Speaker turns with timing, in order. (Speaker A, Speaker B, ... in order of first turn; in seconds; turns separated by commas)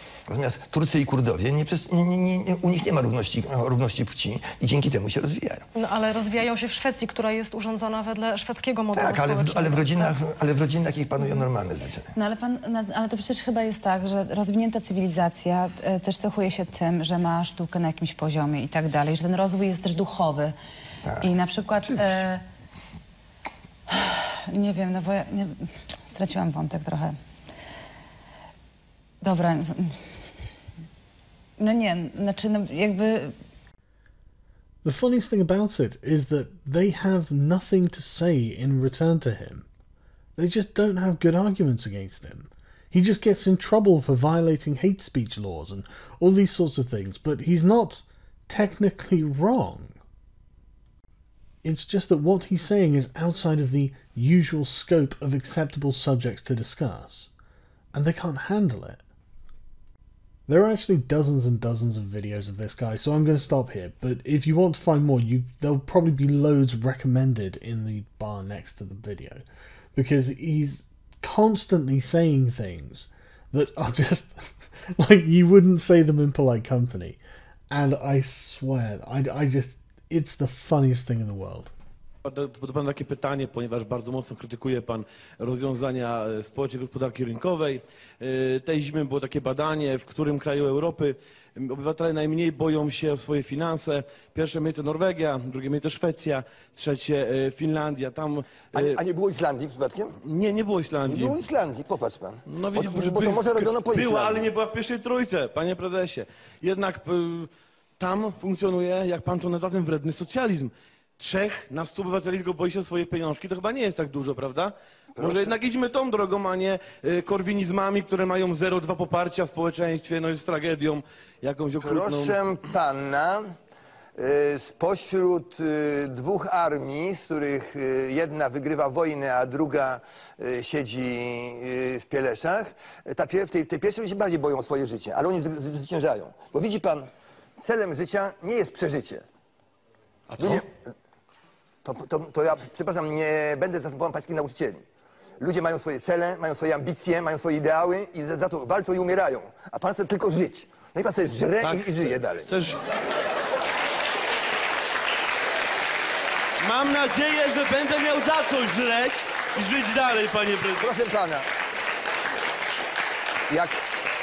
Speaker A: 0.3-5.7, Speaker B: 5.8-10.2, Speaker A: 8.9-12.1, Speaker C: 12.1-20.6, Speaker C: 21.2-22.4, Speaker A: 21.9-22.2, Speaker C: 23.9-27.2, Speaker C: 29.2-30.2, Speaker C: 31.6-33.4, Speaker D: 34.8-39.7, Speaker D: 40.4-50.0, Speaker D: 51.6-57.3, Speaker D: 57.9-59.0, Speaker D: 60.5-69.4, Speaker D: 70.0-77.2, Speaker D: 77.7-81.7, Speaker E: 82.2-99.0, Speaker A: 98.7-100.2, Speaker E: 100.2-101.4, Speaker A: 101.1-104.5, Speaker E: 102.5-122.4, Speaker A: 115.2-115.6, Speaker A: 121.8-123.5, Speaker A: 124.2-137.1, Speaker A: 137.6-139.2, Speaker A: 140.4-140.7, Speaker A: 141.8-144.8, Speaker A: 145.4-152.5, Speaker E: 151.6-152.8, Speaker E: 156.6-160.9, Speaker A: 160.8-161.5, Speaker A: 163.5-163.8